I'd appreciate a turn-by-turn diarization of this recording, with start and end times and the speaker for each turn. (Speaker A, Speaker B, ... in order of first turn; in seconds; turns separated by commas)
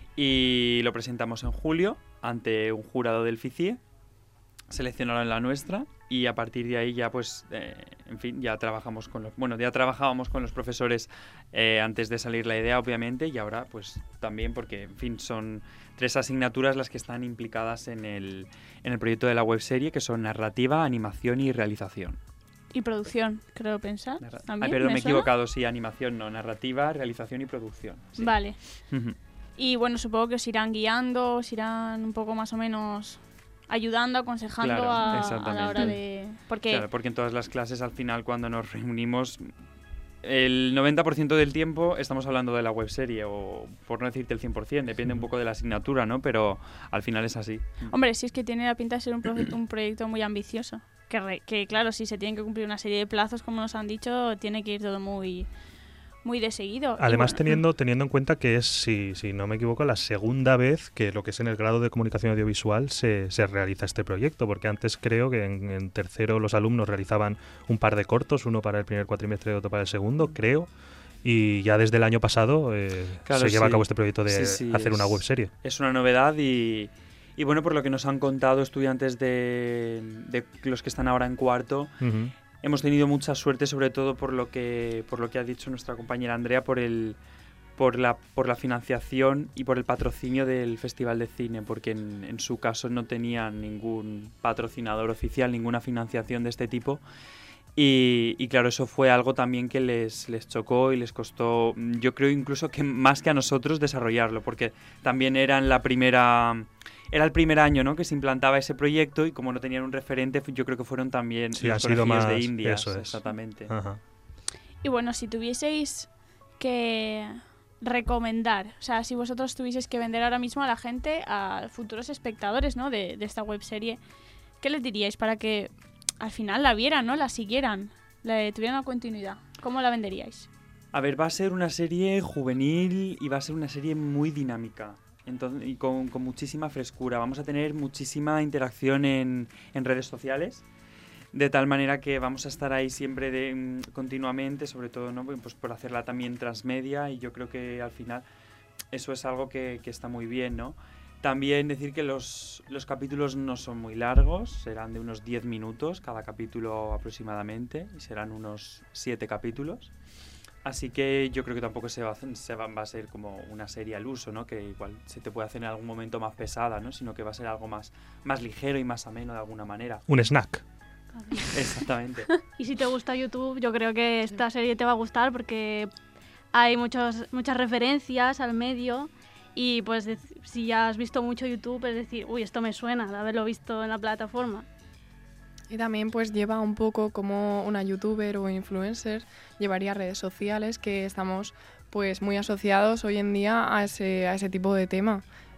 Speaker A: 0.2-3.8, Speaker A: 4.7-22.2, Speaker B: 22.7-25.3, Speaker A: 24.2-29.2, Speaker B: 28.2-28.6, Speaker B: 29.6-36.9, Speaker A: 34.6-36.1, Speaker A: 36.7-39.5, Speaker A: 40.2-48.0, Speaker B: 47.9-55.5, Speaker B: 56.2-57.6, Speaker C: 57.0-70.7, Speaker C: 71.2-75.5, Speaker A: 73.3-81.9, Speaker C: 82.0-82.3, Speaker A: 82.6-87.2, Speaker A: 87.8-97.0, Speaker A: 97.8-113.7, Speaker C: 111.6-114.0, Speaker B: 114.8-124.0, Speaker B: 124.6-130.5, Speaker A: 130.9-140.6, Speaker A: 141.3-148.3, Speaker A: 148.9-159.9, Speaker A: 160.7-170.0, Speaker C: 170.1-170.6, Speaker D: 171.2-171.5, Speaker A: 171.5-172.3, Speaker D: 172.3-175.9, Speaker D: 176.5-184.7, Speaker E: 185.7-195.3